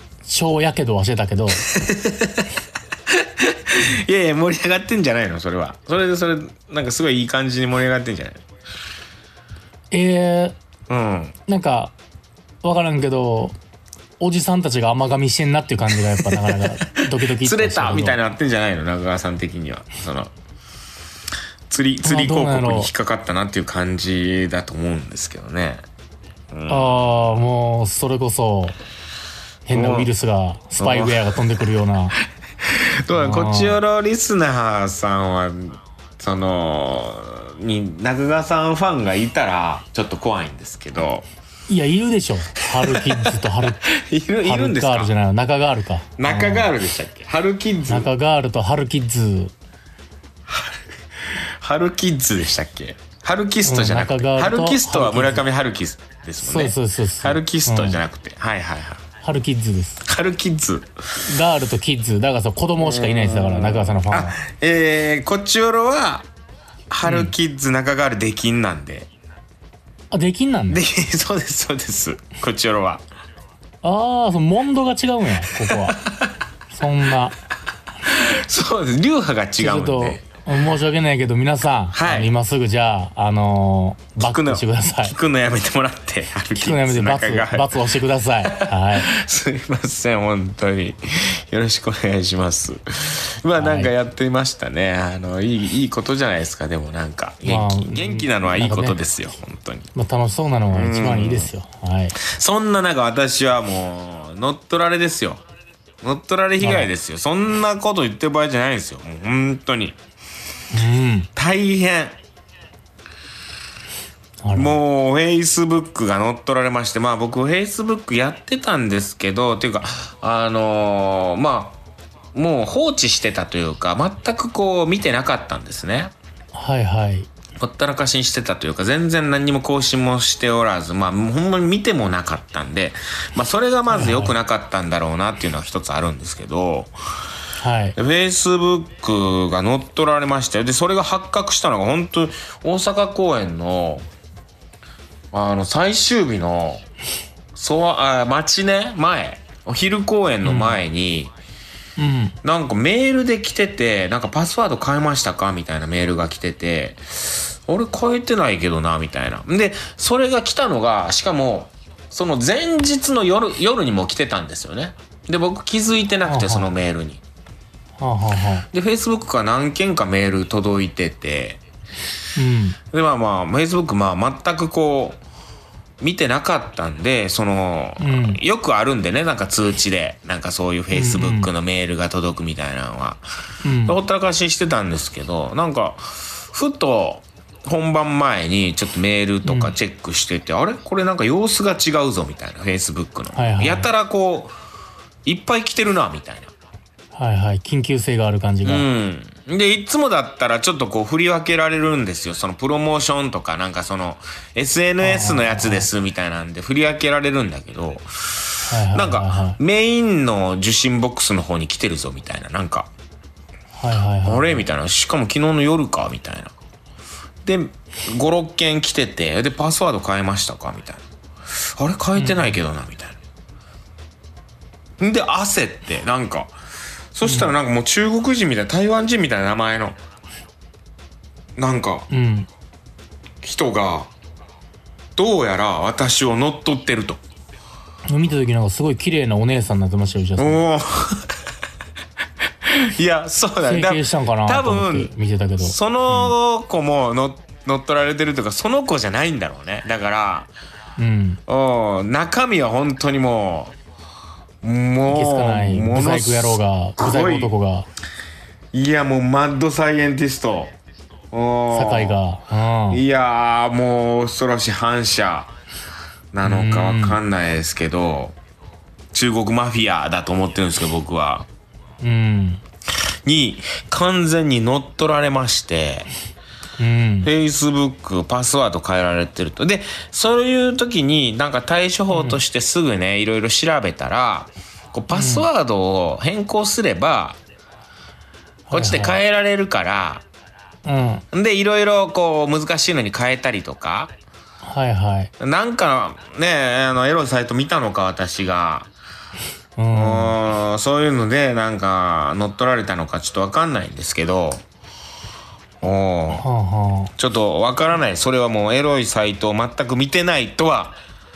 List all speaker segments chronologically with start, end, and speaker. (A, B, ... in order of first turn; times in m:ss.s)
0:00.2-0:01.6 A
0:01.6-0:02.5 B
0:03.1-0:08.4 B
0:09.9-0:10.5 A
0:10.9-0:11.3 B
0:11.5-0:11.9 A
0:12.6-0:13.5 A
0:14.2-0:18.2 A
0:16.2-0:20.3 B
0:21.7-0:25.8 B
0:22.0-0:22.9 A
0:26.5-0:27.5 B
0:26.7-0:28.8 A
0:29.6-0:32.2 A
0:29.7-0:30.1 B
0:30.8-0:31.5 B
0:32.6-0:41.2 B
0:33.1-0:33.8 A
0:41.7-0:43.9 A
0:42.6-0:45.1 B
0:44.4-0:46.7 A
0:46.2-0:48.1 B
0:47.9-0:49.5 A
0:50.5-0:59.0 B
0:53.6-0:55.4 A
0:56.4-0:58.0 A
0:59.2-1:00.0 A
1:00.0-1:00.9 B
1:01.2-1:04.4 A
1:02.8-1:06.3 B
1:06.9-1:09.1 B
1:07.0-1:07.3 A
1:10.1-1:10.8 A
1:10.7-1:13.0 B
1:13.8-1:16.0 A
1:15.7-1:16.3 B
1:16.7-1:17.4 A
1:18.0-1:20.2 B
1:19.6-1:25.2 A
1:21.9-1:22.3 B
1:24.2-1:27.9 B
1:26.5-1:29.1 A
1:28.4-1:39.9 B
1:33.6-1:33.9 A
1:37.4-1:39.0 A
1:39.9-1:42.1 A
1:40.7-1:41.5 B
1:42.2-1:45.4 B
1:46.0-1:50.0 B
1:46.6-1:46.9 A
1:50.7-1:51.3 A
1:51.3-1:52.2 B
1:54.4-1:54.8 A
1:54.5-2:01.8 B
2:02.3-2:06.1 B
2:06.5-2:07.3 A
2:07.6-2:16.9 B
2:13.9-2:14.4 A
2:17.6-2:18.0 A
2:18.0-2:24.0 B
2:25.3-2:26.8 B
2:27.5-2:31.3 B
2:30.4-2:30.8 A
2:32.0-2:32.4 A
2:32.4-2:47.2 B
2:46.2-2:46.7 A
2:48.0-2:48.7 A
2:48.7-2:51.6 B
2:52.4-2:52.8 A
2:52.9-2:55.2 B
2:56.0-3:03.2 B
2:58.0-2:58.4 A
3:00.9-3:01.5 A
3:03.6-3:04.0 A
3:03.8-3:14.5 B
3:09.4-3:09.8 A
3:13.3-3:13.9 A
3:15.2-3:16.5 B
3:17.1-3:18.9 A
3:18.6-3:32.9 B
3:25.0-3:25.9 A
3:28.7-3:29.6 A
3:33.7-3:34.6 A
3:34.2-3:36.5 B
3:37.4-3:41.0 B
3:41.6-3:43.2 B
3:42.2-3:42.6 A
3:45.0-3:46.5 B
3:47.1-3:50.0 B
3:47.2-3:47.5 A
3:51.6-3:52.1 B
3:52.1-3:52.5 A
3:53.4-3:54.1 B
3:55.2-3:57.2 B
3:58.1-4:00.6 A
4:00.4-4:01.3 B
4:02.6-4:10.5 B
4:03.6-4:06.3 A
4:11.0-4:11.4 A
4:11.5-4:13.7 B
4:14.6-4:17.5 B
4:15.1-4:17.9 A
4:18.7-4:20.7 B
4:21.3-4:22.2 B
4:21.7-4:23.0 A
4:22.9-4:25.5 B
4:26.3-4:28.4 B
4:26.4-4:27.2 A
4:29.1-4:31.5 B
4:32.0-4:32.6 A
4:33.2-4:36.1 B
4:36.8-4:37.3 A
4:37.2-4:47.4 B
4:42.1-4:42.4 A
4:45.1-4:45.5 A
4:48.7-4:49.2 A
4:48.7-4:50.2 B
4:50.8-4:51.2 A
4:51.3-4:54.1 B
4:54.6-4:55.3 A
4:55.4-4:58.9 B
4:59.8-5:00.4 A
4:59.9-5:04.6 B
5:05.8-5:06.4 B
5:06.3-5:07.1 A
5:07.2-5:11.0 B